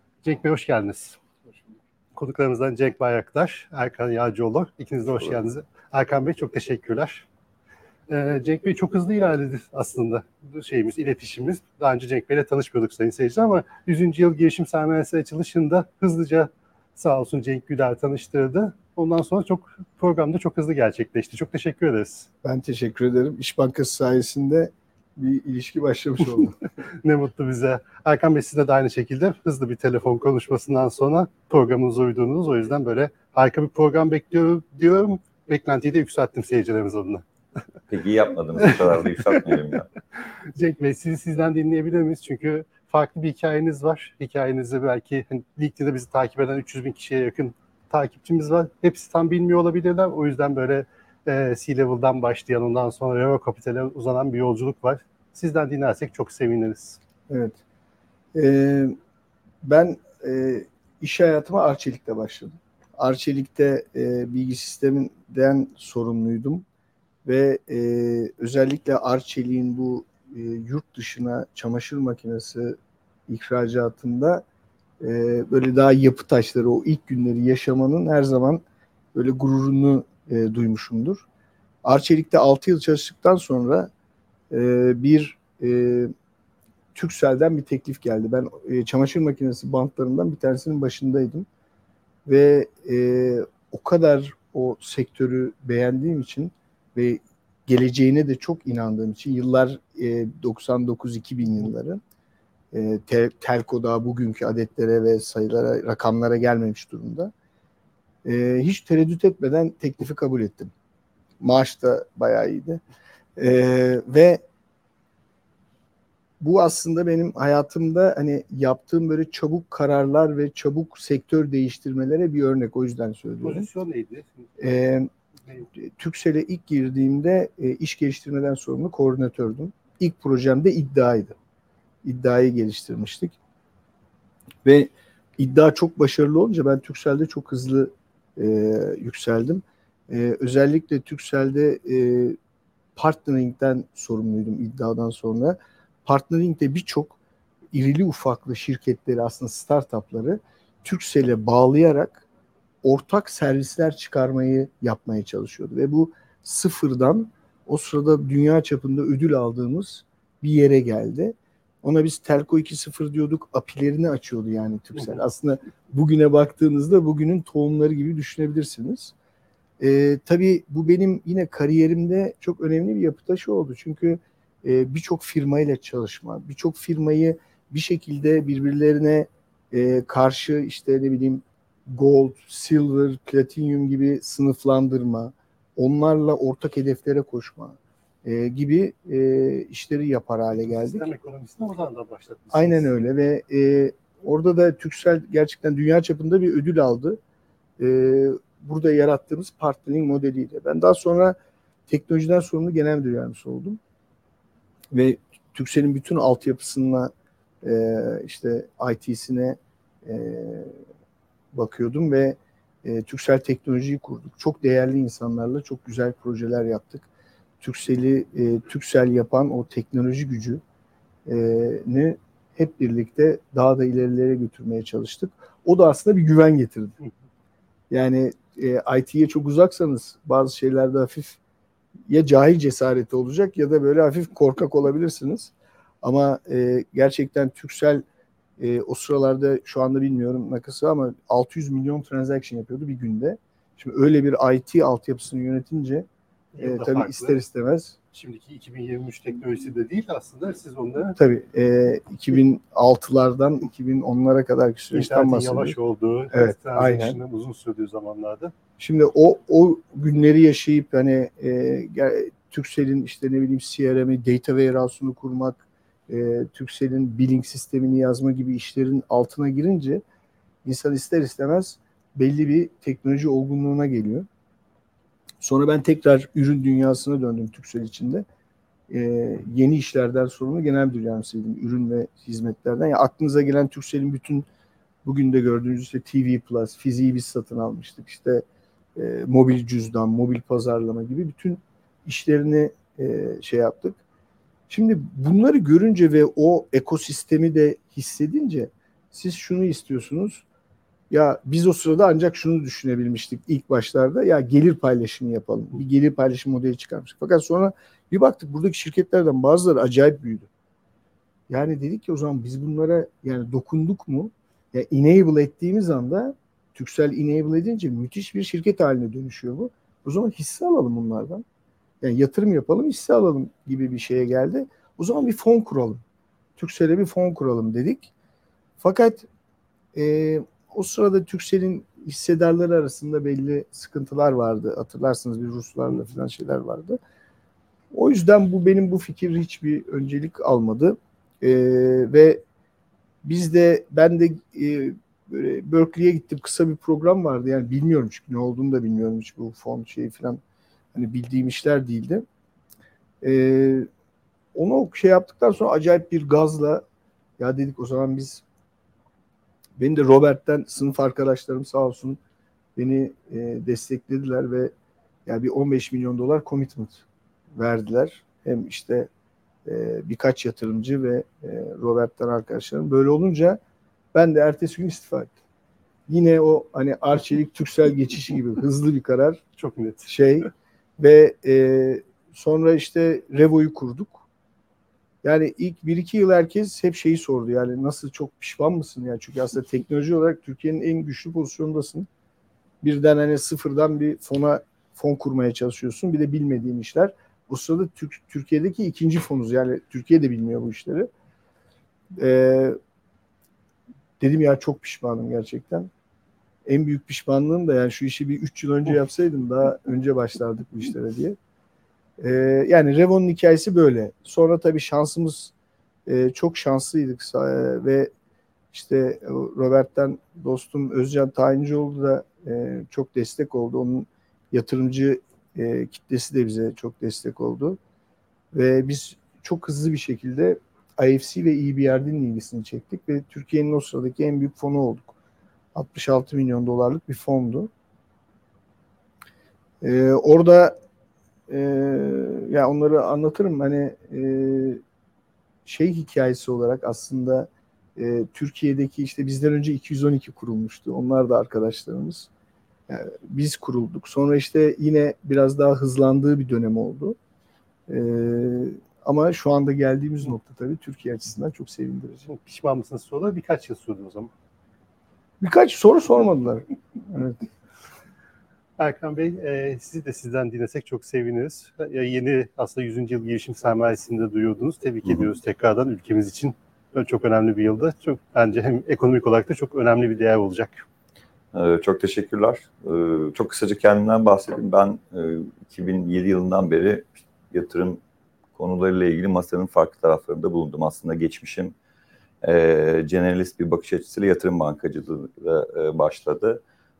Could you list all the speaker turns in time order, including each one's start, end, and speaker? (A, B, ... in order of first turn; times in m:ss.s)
0:00.2-0:01.2 A
0:02.1-0:07.3 A
0:08.1-0:22.3 A
0:22.4-0:26.6 B
0:27.0-0:37.2 A
0:37.9-0:39.9 C
0:40.5-0:57.0 A
0:57.3-0:57.6 B
0:58.4-0:59.0 B
0:59.6-1:06.6 B
1:07.2-1:12.8 B
1:13.3-1:14.4 B
1:15.0-1:18.6 B
1:19.1-1:21.2 B
1:21.8-1:23.9 B
1:24.5-1:26.1 B
1:27.0-1:31.5 B
1:32.3-1:42.0 B
1:42.7-1:47.3 B
1:48.2-1:50.7 B
1:51.4-1:52.8 B
1:53.4-1:54.4 B
1:56.4-2:03.7 B
2:03.4-2:04.5 A
2:04.6-2:05.1 B
2:05.8-2:11.4 B
2:12.0-2:13.4 B
2:14.6-2:22.4 B
2:23.0-2:27.2 B
2:27.7-2:32.3 B
2:32.8-2:49.1 B
2:49.8-3:11.1 B
3:10.7-3:12.9 A
3:12.5-3:17.2 B
3:17.8-3:21.4 B
3:21.9-3:23.8 B
3:24.9-3:27.1 B
3:27.6-3:30.8 B
3:31.5-3:37.1 B
3:37.6-3:40.6 B
3:41.3-3:47.0 B
3:47.9-3:51.4 B
3:52.1-3:58.0 B
3:58.6-4:06.1 B
4:06.5-4:07.4 A
4:06.6-4:08.0 B
4:08.1-4:11.2 A
4:11.2-4:15.8 B
4:14.9-4:18.5 A
4:16.3-4:17.2 B
4:18.8-4:30.0 B
4:30.6-4:34.3 B
4:35.4-4:38.2 B
4:38.9-4:44.5 B
4:45.0-4:48.4 B
4:49.0-4:54.0 B
4:54.7-5:00.4 B
5:01.1-5:10.5 B
5:11.5-5:21.4 B
5:22.0-5:26.0 B
5:26.6-5:28.1 B
5:28.8-5:29.3 B
5:29.9-5:37.0 B
5:37.9-5:42.4 B
5:43.2-5:50.4 B
5:50.9-5:52.2 B
5:53.2-5:53.9 B
5:54.5-5:56.8 B
5:57.4-5:58.4 B
5:59.8-6:02.2 B
6:02.8-6:04.7 B
6:05.3-6:09.1 B
6:09.7-6:13.6 B
6:14.1-6:15.4 B
6:16.1-6:19.4 B
6:19.6-6:20.1 A
6:20.1-6:24.2 B
6:25.2-6:32.1 B
6:32.8-6:41.1 B
6:42.2-6:42.8 B
6:44.2-6:45.9 B
6:46.7-6:51.4 B
6:52.2-6:55.5 B
6:56.1-6:58.1 B
6:58.7-7:07.8 B
7:08.5-7:15.1 B
7:15.8-7:17.7 B
7:19.8-7:20.8 B
7:21.5-7:24.8 B
7:25.7-7:32.3 B
7:32.9-7:37.2 B
7:37.9-7:42.3 B
7:42.3-7:44.3 A
7:45.4-7:47.4 B
7:48.8-8:00.8 A
8:01.5-8:08.0 C
8:08.6-8:11.8 C
8:12.4-8:16.6 C